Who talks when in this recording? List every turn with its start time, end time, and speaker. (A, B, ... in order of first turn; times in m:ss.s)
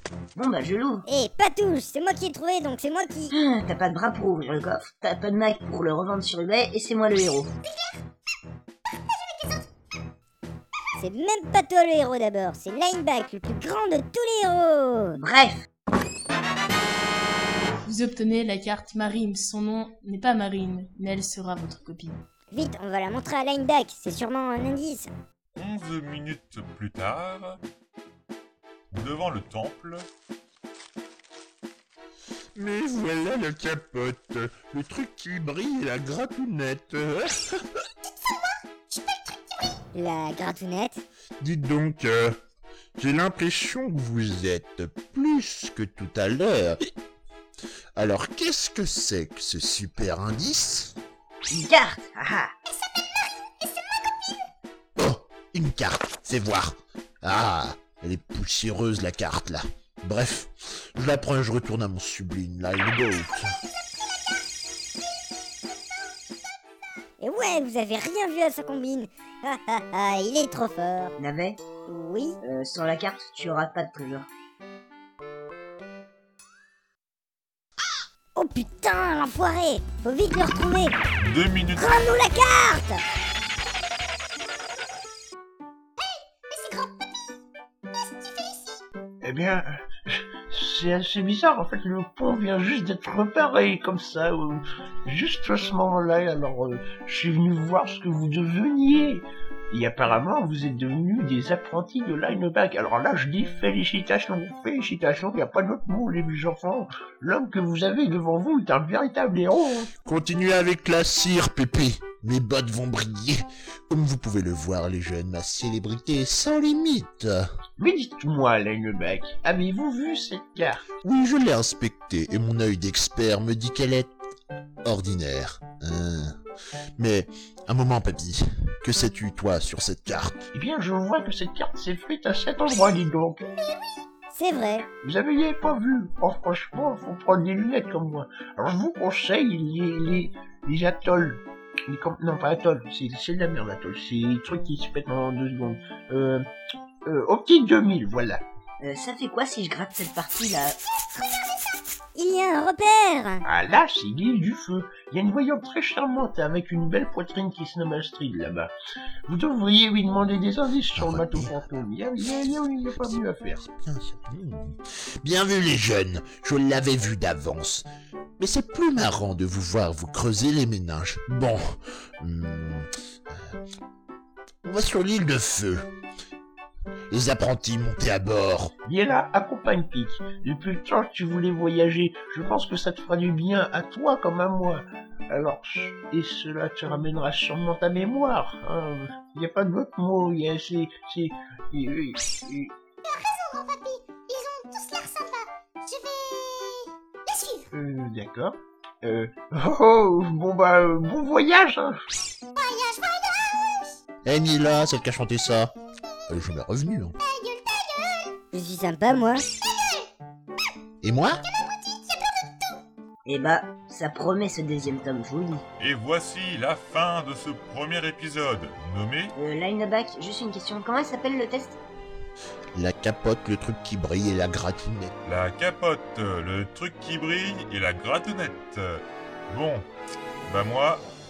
0:00.3-0:01.0 A
0:01.1-0:03.3 B
0:03.3-0:07.5 A
0:07.6-0:08.0 C
0:08.9-0:09.7 C
0:11.0-0:15.2 B
0:15.2-0:15.6 A
0:17.8-0:22.2 D
0:22.5-0:25.1 B
0:25.6-0:27.6 E
0:28.9-0:30.0 E
0:32.6-0:37.6 F
0:38.0-0:39.8 C
0:39.9-0:41.0 B
0:41.4-0:42.4 F
0:43.0-0:46.8 F
0:48.0-0:50.9 F
0:51.5-0:52.5 A
0:52.7-0:54.5 C
0:55.0-1:03.5 F
1:03.8-1:04.4 C
1:07.2-1:11.1 B
1:11.2-1:11.6 A
1:11.9-1:12.4 B
1:12.4-1:14.3 A
1:18.3-1:21.0 B
1:21.2-1:21.9 E
1:21.8-1:23.0 B
1:26.0-1:27.4 C
1:27.9-1:28.8 C
1:29.2-1:49.9 G
1:50.0-1:57.5 F
1:57.8-2:00.8 G
2:01.0-2:04.1 F
2:04.8-2:06.4 F
2:07.0-2:10.4 F
2:10.5-2:13.4 G
2:13.4-2:14.0 C
2:14.3-2:14.8 B
2:15.0-2:26.4 G
2:27.0-2:28.4 G
2:28.8-2:30.8 A
2:32.2-2:33.4 B
2:33.4-2:38.7 G
2:39.3-2:43.6 G
2:41.0-2:41.5 F
2:43.6-2:47.9 F
2:48.4-2:53.5 F
2:54.6-2:55.9 F
2:57.1-2:58.7 F
2:58.8-3:12.7 G
3:13.0-3:17.7 C
3:17.7-3:21.9 G
3:22.5-3:24.0 C
3:24.2-3:25.7 F
3:26.3-3:27.2 F
3:27.2-3:28.4 C
3:28.5-3:29.4 B
3:29.6-3:30.1 C
3:31.0-3:31.4 F
3:31.4-3:32.8 C
3:33.2-3:35.6 A
3:35.8-3:39.3 E
3:39.3-3:41.8 A
3:42.7-3:45.1 F
3:45.2-3:49.9 E
3:50.4-3:51.0 E